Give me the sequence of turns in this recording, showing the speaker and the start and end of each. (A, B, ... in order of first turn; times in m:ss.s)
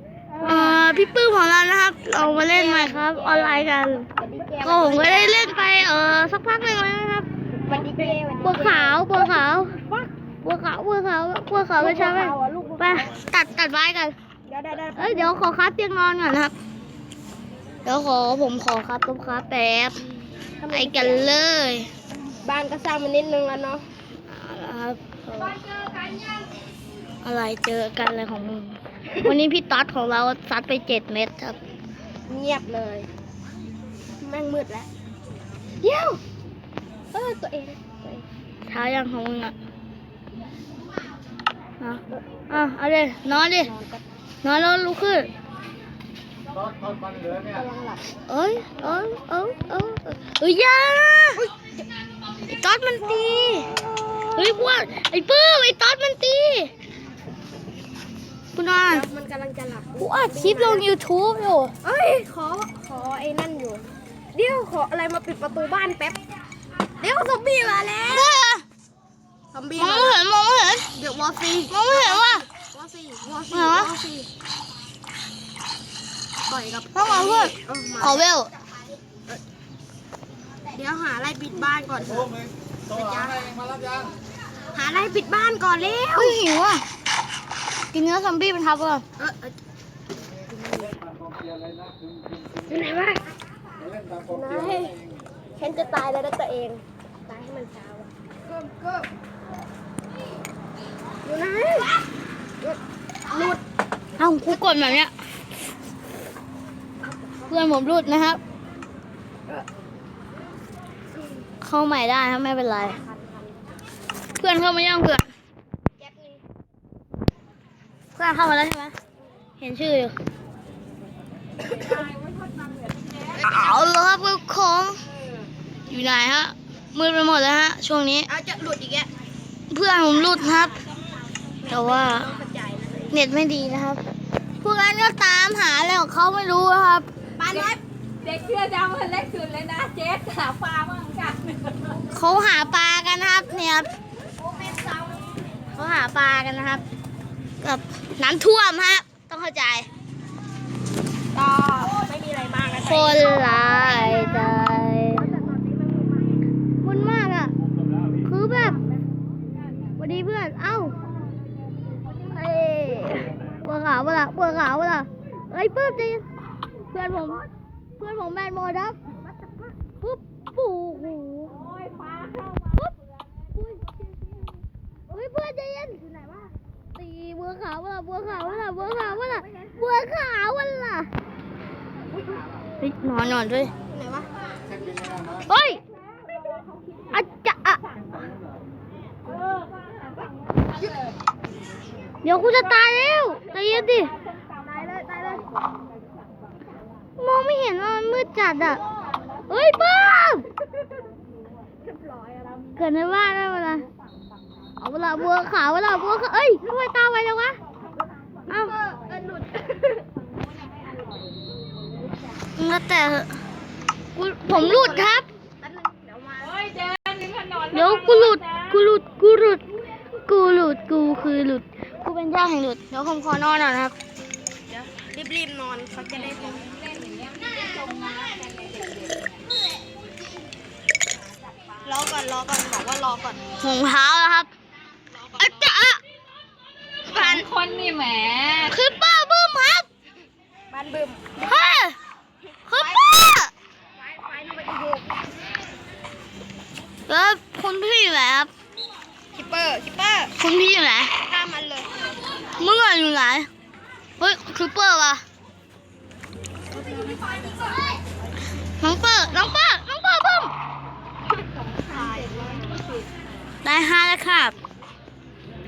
0:00.4-0:04.1 A
0:02.2-0:05.5 B
0:04.6-0:07.3 A
0:07.7-0:10.1 B
0:08.4-0:09.8 A
0:10.4-0:14.2 A
0:11.8-0:13.1 B
0:14.5-0:15.3 B
0:15.0-0:16.5 A
0:17.8-0:20.0 A
0:20.6-0:21.4 B
0:20.7-0:21.9 A
0:22.4-0:23.8 B
0:24.3-0:25.6 A
0:27.2-0:31.6 A
0:32.3-0:33.1 B
0:34.2-0:34.9 B
0:35.8-0:36.2 B
0:37.1-0:38.3 B
0:38.6-0:39.5 A
0:41.8-0:43.7 A
0:43.5-0:44.0 B
0:44.4-0:45.3 A
0:47.3-0:48.0 B
0:48.3-0:51.4 A
0:52.5-0:53.7 A
0:54.1-0:54.6 B
0:54.4-0:56.7 A
0:58.6-0:59.1 A
0:58.9-1:00.9 B
1:00.0-1:01.7 A
1:01.8-1:06.2 B
1:07.0-1:08.4 B
1:08.1-1:08.6 A
1:09.5-1:10.2 B
1:09.8-1:10.9 A
1:11.0-1:14.3 B
1:11.7-1:12.5 A
1:13.5-1:13.9 A
1:16.5-1:18.3 B
1:16.9-1:18.5 A
1:20.7-1:22.3 B
1:22.9-1:23.6 B
1:24.7-1:26.4 B
1:26.1-1:26.8 A
1:27.9-1:29.0 A
1:29.2-1:29.5 B
1:30.6-1:31.0 B
1:32.6-1:33.2 B
1:34.2-1:35.0 B
1:35.6-1:39.1 B
1:41.2-1:42.0 B
1:42.6-1:43.6 B
1:44.2-1:45.1 A
1:47.5-1:48.4 A
1:51.6-1:53.0 A
1:53.0-1:53.4 B
1:54.4-1:55.2 A
1:56.0-1:56.4 B
1:58.2-1:59.0 A
1:59.6-2:00.2 A
2:01.9-2:03.3 C
2:03.4-2:03.8 B
2:03.4-2:05.0 A
2:05.9-2:08.3 A
2:08.3-2:09.1 B
2:09.7-2:10.8 A
2:11.6-2:13.2 B
2:11.7-2:12.3 A
2:13.1-2:14.0 A
2:14.6-2:17.1 A
2:17.4-2:17.8 B
2:18.2-2:21.8 C
2:22.1-2:23.9 A
2:24.7-2:25.0 B
2:25.7-2:26.8 A
2:27.6-2:29.9 A
2:31.4-2:33.4 B
2:32.8-2:35.3 A
2:35.2-2:36.4 B
2:36.8-2:37.5 A
2:38.2-2:38.8 A
2:40.0-2:41.0 A
2:42.3-2:46.3 A
2:46.9-2:47.5 A
2:48.0-2:49.0 A
2:50.0-2:51.6 A
2:53.6-2:53.8 A
2:55.1-2:56.0 A
2:56.0-2:56.5 B
2:57.0-3:01.1 A
3:02.8-3:03.7 A
3:03.9-3:04.3 B
3:05.5-3:05.8 A
3:07.1-3:07.8 A
3:12.2-3:14.1 A
3:14.5-3:15.5 B
3:17.2-3:18.8 A
3:19.5-3:20.5 A
3:21.9-3:22.6 B
3:22.8-3:23.9 A
3:24.8-3:27.6 A
3:28.5-3:28.7 A
3:28.5-3:30.0 B
3:32.6-3:33.3 A
3:34.2-3:35.3 A
3:34.5-3:36.7 B
3:36.6-3:37.7 C
3:37.6-3:39.6 A
3:40.3-3:44.0 A
3:44.7-3:46.8 B
3:46.8-3:49.4 C
3:51.8-3:53.4 B
3:53.6-3:54.5 A
3:55.3-3:55.7 B
3:55.4-3:56.0 A
3:57.1-3:58.7 C
3:57.1-3:57.4 A
3:58.6-3:59.9 A
4:00.7-4:01.3 B
4:01.4-4:02.0 A
4:02.7-4:03.5 A
4:02.7-4:03.1 B
4:04.0-4:05.1 B
4:07.1-4:08.5 A
4:09.3-4:10.3 B
4:10.4-4:11.2 A
4:11.2-4:11.9 B
4:12.6-4:13.5 A
4:14.2-4:15.2 A
4:16.7-4:17.8 B
4:18.8-4:20.5 A
4:21.8-4:22.9 B
4:23.6-4:24.6 A